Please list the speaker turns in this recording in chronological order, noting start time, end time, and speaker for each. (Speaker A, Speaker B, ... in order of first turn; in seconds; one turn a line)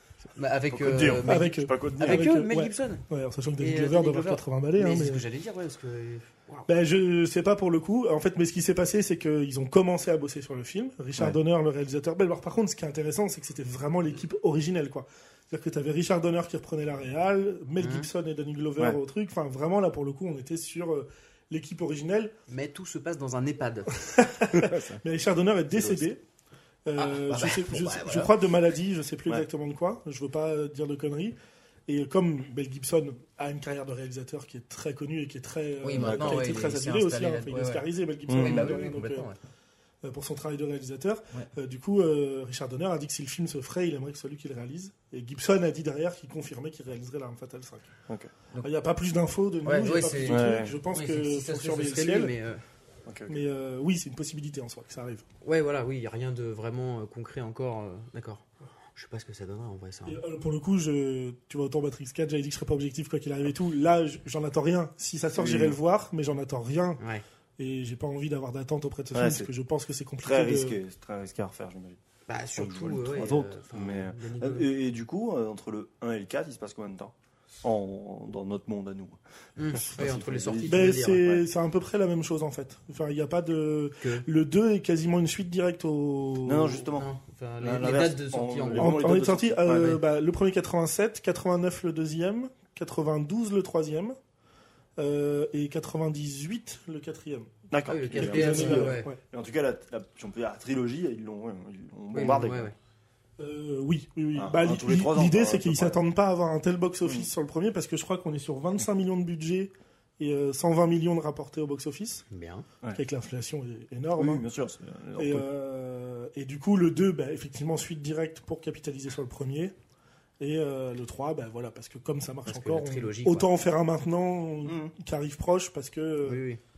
Speaker A: 0.3-3.0
Speaker B: 0.7-2.3
Speaker C: 1.2-5.2
Speaker A: 3.6-6.7
Speaker C: 6.7-22.3
Speaker A: 17.8-18.1
Speaker A: 22.5-24.0
Speaker C: 23.9-26.2
Speaker B: 24.5-25.0
Speaker B: 25.7-26.0
Speaker C: 26.9-31.4
Speaker A: 27.0-28.3
Speaker C: 31.9-39.3
Speaker A: 35.8-37.9
Speaker B: 36.0-36.5
Speaker B: 38.3-38.7
Speaker A: 38.4-39.4
Speaker C: 40.0-47.9
Speaker C: 48.6-52.3
Speaker A: 49.6-52.6
Speaker B: 50.2-50.8
Speaker B: 53.0-53.4
Speaker C: 53.3-55.2
Speaker A: 55.4-60.2
Speaker C: 60.0-67.0
Speaker B: 65.3-65.8
Speaker C: 67.6-70.8
Speaker B: 69.1-69.5
Speaker B: 70.2-72.0
Speaker A: 72.3-74.7
Speaker B: 72.5-79.2
Speaker A: 79.6-81.3
Speaker B: 79.7-81.4
Speaker C: 80.7-86.9
Speaker B: 86.4-90.0
Speaker A: 87.0-89.1
Speaker C: 88.7-94.2
Speaker C: 95.0-97.5
Speaker B: 97.7-102.7
Speaker A: 97.9-99.1
Speaker C: 98.1-99.2
Speaker A: 102.1-102.7
Speaker C: 103.4-112.2
Speaker B: 104.3-106.0
Speaker A: 112.3-112.7
Speaker C: 112.9-114.4
Speaker B: 114.2-115.5
Speaker C: 115.2-119.7
Speaker C: 120.4-126.4
Speaker A: 122.5-123.5
Speaker B: 124.6-124.9
Speaker A: 126.2-126.6